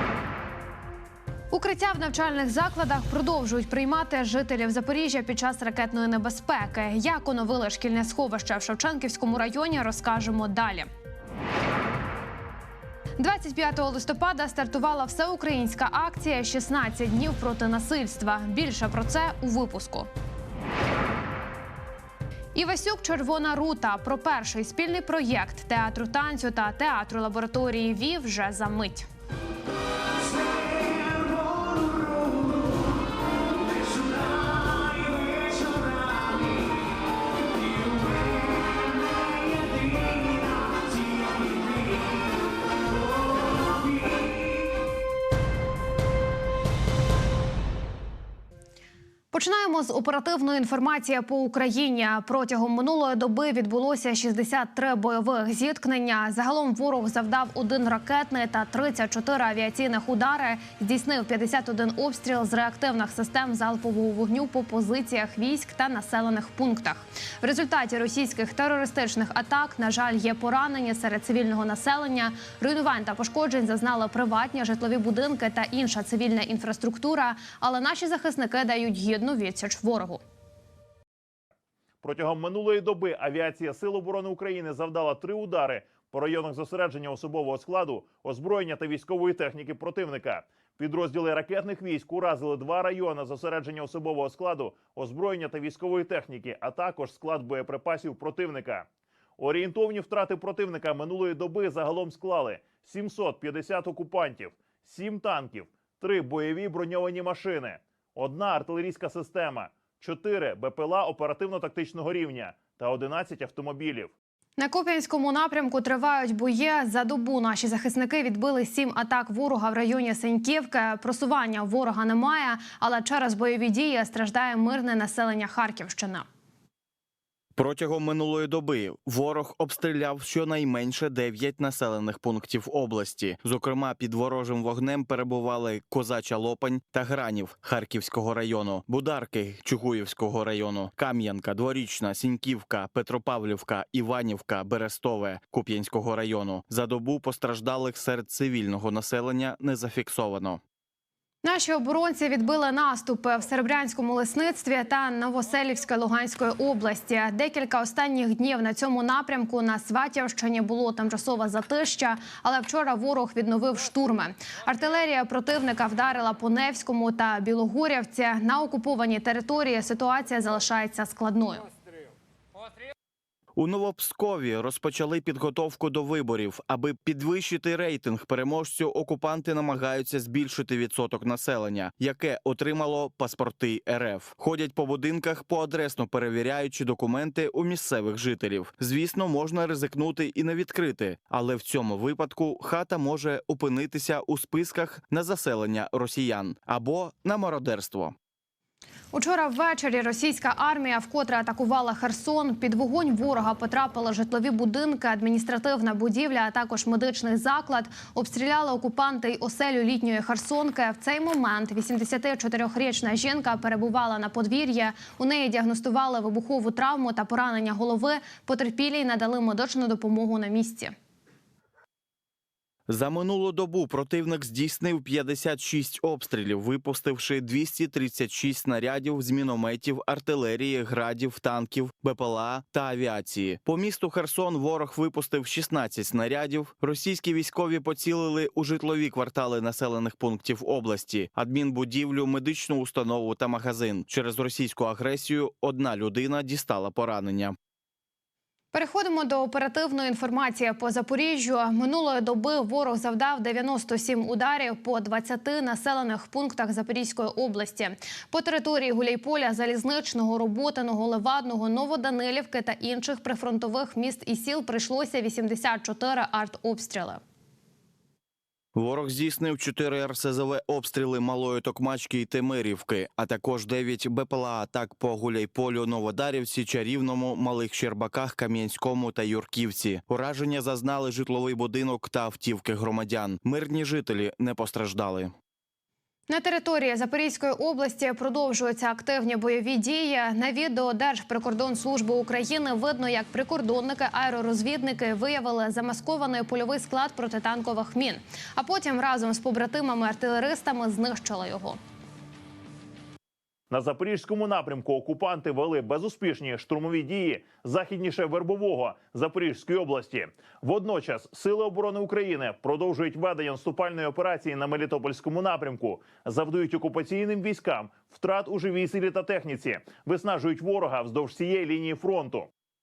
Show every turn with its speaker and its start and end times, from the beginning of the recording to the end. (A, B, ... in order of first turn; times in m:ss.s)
0:01.5-0:10.9 A
0:13.2-0:20.1 A
0:22.6-0:29.1 A
0:49.3-1:20.2 A
1:22.0-1:38.9 B
1:39.4-1:54.1 B
1:54.6-2:06.3 A
2:07.6-2:30.6 C
2:31.4-2:51.6 A
2:53.6-3:18.2 C
3:19.1-3:40.9 A
3:42.9-4:07.6 C
4:08.7-4:27.2 A
4:28.8-4:45.3 C
4:46.3-5:01.8 A
5:03.7-5:22.5 B